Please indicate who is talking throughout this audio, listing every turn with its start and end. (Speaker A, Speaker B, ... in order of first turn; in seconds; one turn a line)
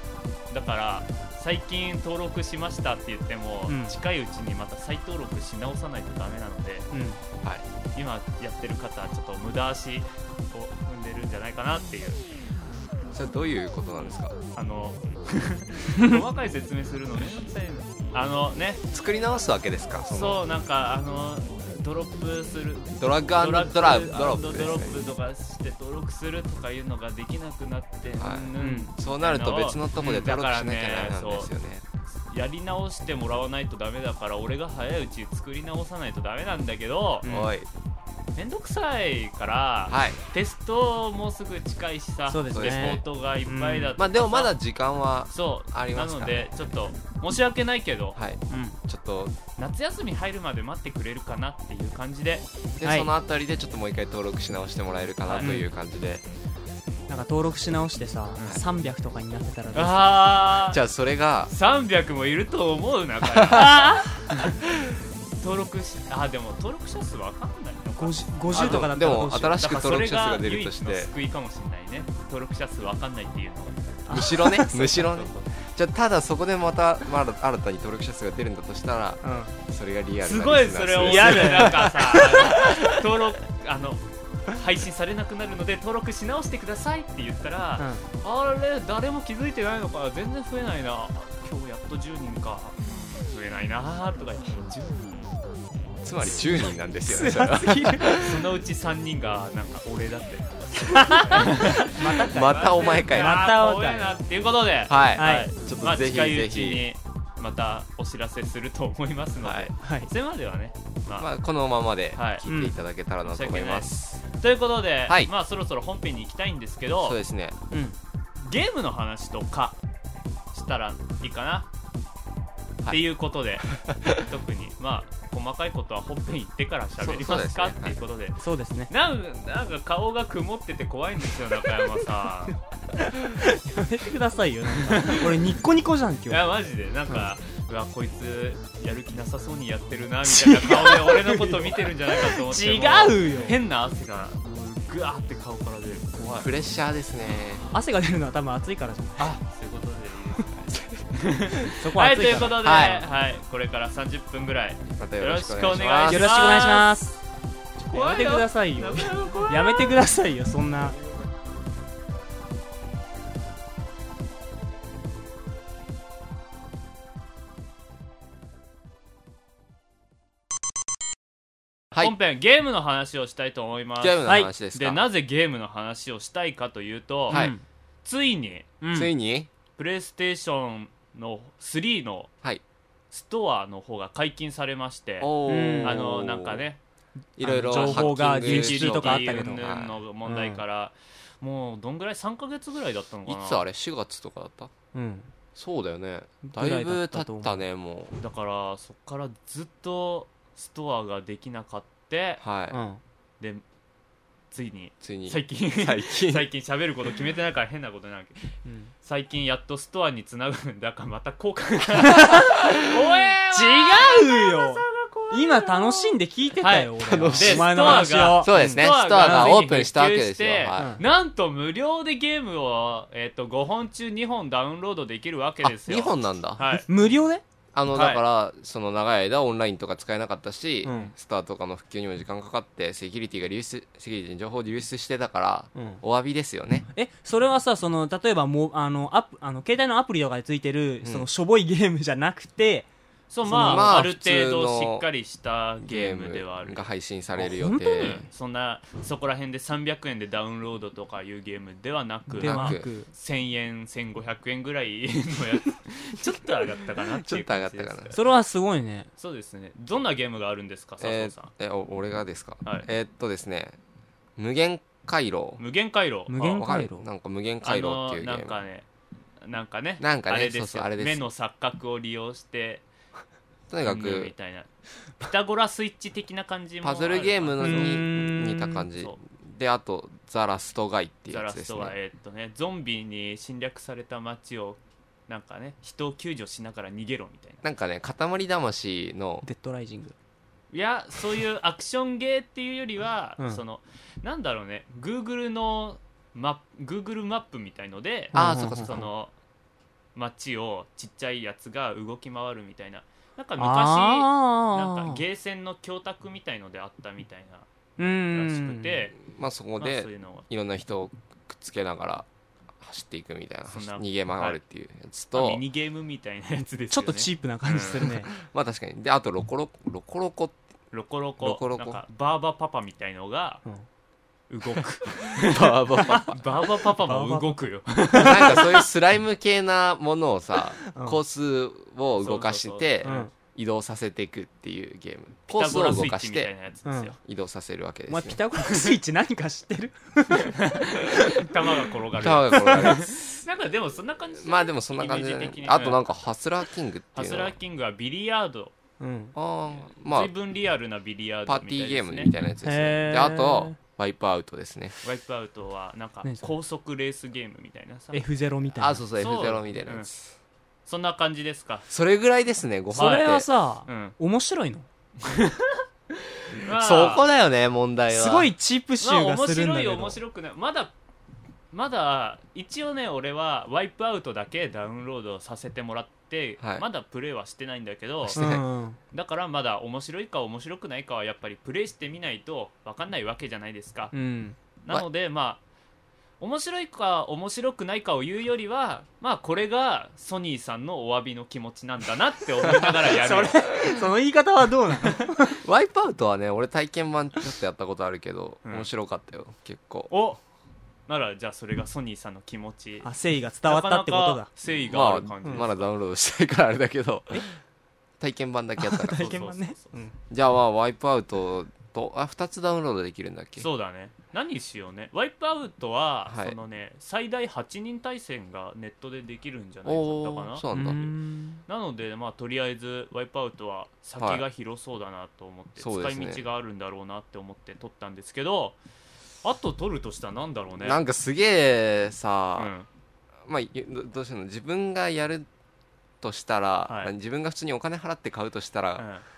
Speaker A: 0.5-6.9
Speaker B: 3.7-4.0
Speaker B: 6.9-7.2
Speaker A: 7.9-12.2
Speaker C: 13.1-14.3
Speaker A: 14.6-18.8
Speaker C: 18.9-20.4
Speaker A: 20.1-31.5
Speaker C: 23.0-25.0
Speaker C: 28.2-31.9
Speaker B: 28.6-28.9
Speaker A: 32.2-37.3
Speaker B: 37.2-37.5
Speaker C: 37.2-37.7
Speaker A: 38.4-44.5
Speaker C: 39.9-40.2
Speaker B: 42.3-43.9
Speaker C: 42.5-43.0
Speaker C: 44.0-46.5
Speaker A: 45.3-48.2
Speaker C: 48.2-49.4
Speaker B: 48.5-48.8
Speaker A: 49.6-52.5
Speaker C: 52.8-56.3
Speaker B: 52.8-53.1
Speaker A: 55.3-55.6
Speaker B: 55.4-55.7
Speaker B: 57.1-60.1
Speaker A: 59.7-60.8
Speaker C: 60.7-61.5
Speaker A: 61.5-64.7
Speaker C: 63.2-63.7
Speaker B: 63.5-64.2
Speaker A: 65.4-69.1
Speaker B: 68.0-69.6
Speaker C: 68.5-71.1
Speaker A: 69.6-74.0
Speaker B: 74.1-75.1
Speaker C: 74.1-82.0
Speaker A: 74.7-75.5
Speaker B: 79.2-79.5
Speaker A: 80.2-95.3
Speaker B: 81.0-82.4
Speaker C: 82.5-82.8
Speaker B: 87.8-88.1
Speaker C: 96.0-98.4
Speaker B: 97.1-98.2
Speaker A: 98.1-111.3
Speaker B: 101.1-104.2
Speaker C: 102.2-103.5
Speaker C: 104.9-106.8
Speaker B: 105.2-105.5
Speaker C: 109.4-109.7
Speaker B: 109.8-110.1
Speaker C: 111.2-114.2
Speaker A: 112.1-112.5
Speaker B: 112.5-112.8
Speaker A: 113.2-117.2
Speaker C: 117.0-117.6
Speaker B: 117.7-118.0
Speaker A: 118.4-119.8
Speaker A: 120.5-121.7
Speaker A: 122.9-132.6
Speaker C: 123.7-124.2
Speaker C: 127.0-128.0
Speaker B: 128.4-128.9
Speaker B: 133.3-136.5
Speaker A: 134.8-135.3
Speaker A: 136.3-146.5
Speaker B: 140.2-143.6
Speaker C: 146.3-147.7
Speaker B: 147.7-149.3
Speaker A: 149.2-156.9
Speaker C: 150.7-151.1
Speaker B: 151.8-153.0
Speaker C: 152.3-153.1
Speaker C: 155.0-156.4
Speaker B: 156.1-157.2
Speaker B: 157.8-161.0
Speaker A: 157.9-160.0
Speaker A: 172.0-177.5
Speaker C: 174.0-175.0
Speaker B: 174.3-174.5
Speaker C: 177.3-177.6
Speaker B: 177.3-177.6
Speaker A: 178.0-178.7
Speaker B: 178.8-179.1
Speaker C: 178.9-179.5
Speaker A: 179.8-182.3
Speaker A: 183.1-186.8
Speaker C: 185.2-186.7
Speaker B: 185.5-186.0
Speaker C: 187.4-190.0
Speaker B: 187.4-189.7
Speaker A: 187.7-193.6
Speaker B: 190.2-190.6
Speaker C: 193.3-194.7
Speaker B: 194.9-195.3
Speaker C: 195.6-198.2
Speaker B: 196.4-197.6
Speaker A: 198.2-202.4
Speaker C: 202.4-202.8
Speaker B: 202.7-203.0
Speaker A: 204.5-226.9
Speaker C: 205.0-206.5
Speaker B: 208.7-208.9
Speaker B: 212.2-212.5
Speaker B: 213.5-219.6
Speaker C: 217.0-221.0
Speaker B: 220.8-221.0
Speaker C: 225.6-226.8
Speaker B: 226.9-227.4
Speaker C: 227.7-236.9
Speaker A: 227.9-228.2
Speaker B: 230.8-231.1
Speaker B: 235.8-236.0
Speaker B: 236.9-242.9
Speaker C: 241.0-241.3
Speaker A: 243.3-246.9
Speaker B: 243.5-244.0
Speaker C: 243.5-245.1
Speaker C: 245.8-248.2
Speaker B: 247.4-248.3
Speaker A: 247.8-258.3
Speaker B: 252.3-253.1
Speaker C: 252.4-252.9
Speaker C: 257.2-258.2
Speaker B: 258.1-259.1
Speaker A: 259.2-261.5
Speaker C: 261.0-263.8
Speaker C: 264.4-265.6
Speaker A: 265.6-266.7
Speaker B: 266.3-267.1
Speaker C: 266.6-268.6
Speaker A: 267.6-268.9
Speaker A: 269.4-272.9
Speaker C: 270.0-271.2
Speaker C: 273.7-274.3
Speaker A: 273.8-278.0
Speaker C: 276.8-282.0
Speaker B: 277.6-278.9
Speaker A: 281.3-287.6
Speaker C: 287.6-289.5
Speaker B: 289.4-290.1
Speaker A: 290.7-299.3
Speaker B: 298.3-299.0
Speaker C: 298.4-299.1
Speaker A: 300.1-309.1
Speaker B: 303.6-305.2
Speaker B: 308.0-309.0
Speaker C: 309.2-312.3
Speaker A: 309.8-310.4
Speaker C: 312.8-315.6
Speaker A: 313.7-314.6
Speaker A: 315.3-318.1
Speaker B: 316.6-318.3
Speaker C: 318.4-320.6
Speaker A: 320.9-323.6
Speaker C: 321.4-322.0
Speaker A: 324.5-328.8
Speaker C: 325.3-326.4
Speaker B: 327.0-327.6
Speaker B: 328.1-328.6
Speaker C: 328.1-336.5
Speaker B: 330.8-331.2
Speaker A: 332.2-333.3
Speaker B: 333.1-333.3
Speaker A: 335.5-337.2
Speaker B: 336.9-337.1
Speaker C: 337.2-338.4
Speaker B: 338.1-341.1
Speaker A: 338.6-338.9
Speaker A: 340.3-346.0
Speaker C: 342.2-343.3
Speaker B: 342.6-342.9
Speaker C: 344.4-347.6
Speaker A: 347.1-348.7
Speaker B: 349.0-349.4
Speaker C: 349.4-350.3
Speaker A: 349.7-352.3
Speaker C: 351.5-355.0
Speaker B: 352.6-353.8
Speaker A: 355.0-358.3
Speaker B: 356.2-356.5
Speaker B: 358.1-359.0
Speaker C: 358.8-360.3
Speaker A: 359.2-360.1
Speaker A: 360.9-361.9
Speaker C: 361.9-363.5
Speaker A: 362.9-363.3
Speaker B: 362.9-364.9
Speaker A: 363.9-364.2
Speaker A: 365.2-367.2
Speaker C: 366.6-368.5
Speaker B: 368.1-370.2
Speaker A: 369.0-370.9
Speaker A: 371.7-378.4
Speaker C: 376.6-376.9
Speaker C: 378.2-378.6
Speaker B: 378.4-379.0
Speaker A: 379.1-384.1
Speaker B: 384.1-384.6
Speaker A: 384.8-385.6
Speaker A: 386.4-393.6
Speaker B: 392.8-395.6
Speaker C: 395.6-400.1
Speaker A: 398.6-398.9
Speaker A: 400.1-400.4
Speaker A: 401.1-403.1
Speaker B: 403.0-404.5
Speaker A: 403.6-405.9
Speaker C: 404.9-407.5
Speaker C: 408.2-409.5
Speaker B: 408.8-410.2
Speaker A: 409.2-409.9
Speaker C: 410.3-413.7
Speaker A: 413.6-421.1
Speaker C: 416.3-416.6
Speaker C: 419.9-421.1
Speaker B: 420.7-421.6
Speaker A: 421.7-428.8
Speaker C: 424.2-424.4
Speaker C: 425.8-426.4
Speaker A: 429.4-431.0
Speaker C: 430.8-432.7
Speaker A: 432.6-432.9
Speaker C: 433.4-435.5
Speaker C: 436.2-439.1
Speaker A: 436.9-437.1
Speaker A: 439.0-439.2